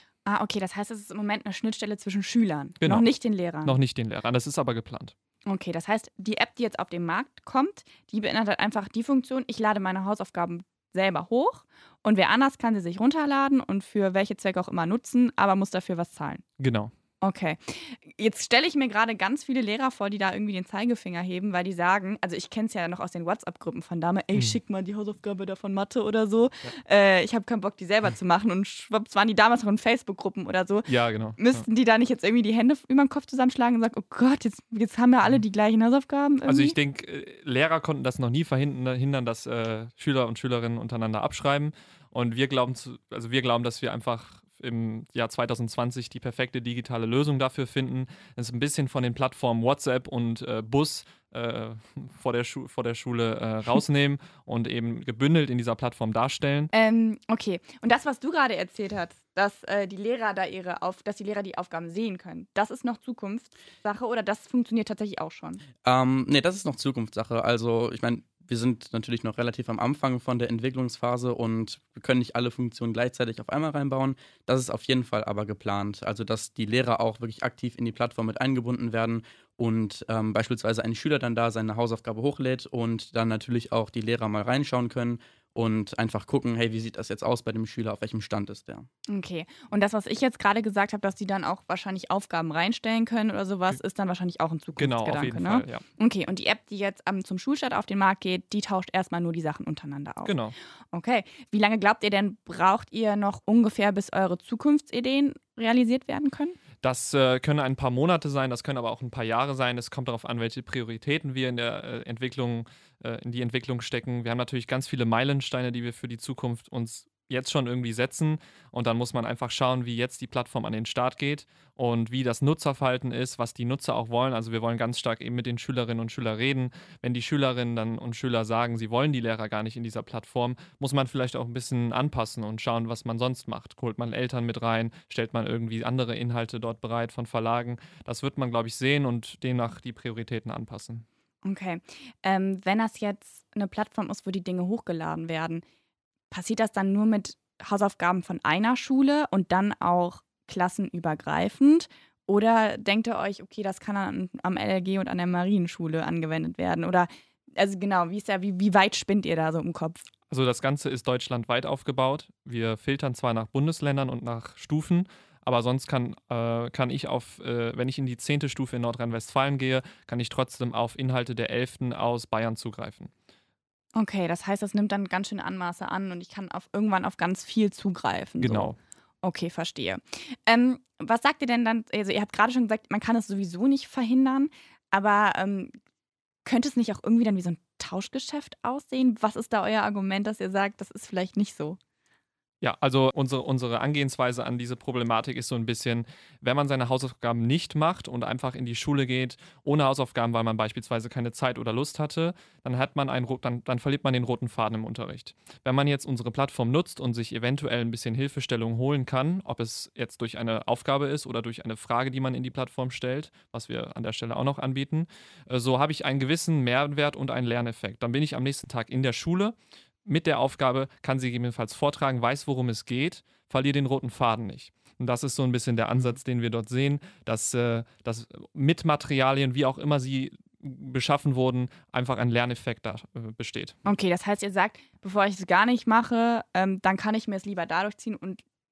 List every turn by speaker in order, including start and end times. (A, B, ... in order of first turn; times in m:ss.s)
0:00.2-0:03.8 A
0:02.8-0:03.1 B
0:03.6-0:05.1 B
0:05.5-0:16.4 A
0:16.6-0:16.9 B
0:17.2-0:36.8 A
0:30.9-0:31.6 B
0:36.5-0:56.7 B
0:56.7-1:05.6 A
1:05.8-1:28.9 C
1:29.1-1:40.4 A
1:34.8-1:35.8 B
1:40.2-1:40.6 B
1:40.9-1:46.6 A
1:46.8-2:21.0 B
2:21.4-2:25.6 A
2:26.3-2:40.0 A
2:40.3-2:53.1 B
2:54.0-3:05.7 A
2:58.4-2:58.8 B
3:06.4-3:11.8 A
3:12.6-3:53.8 B
3:53.8-3:58.4 A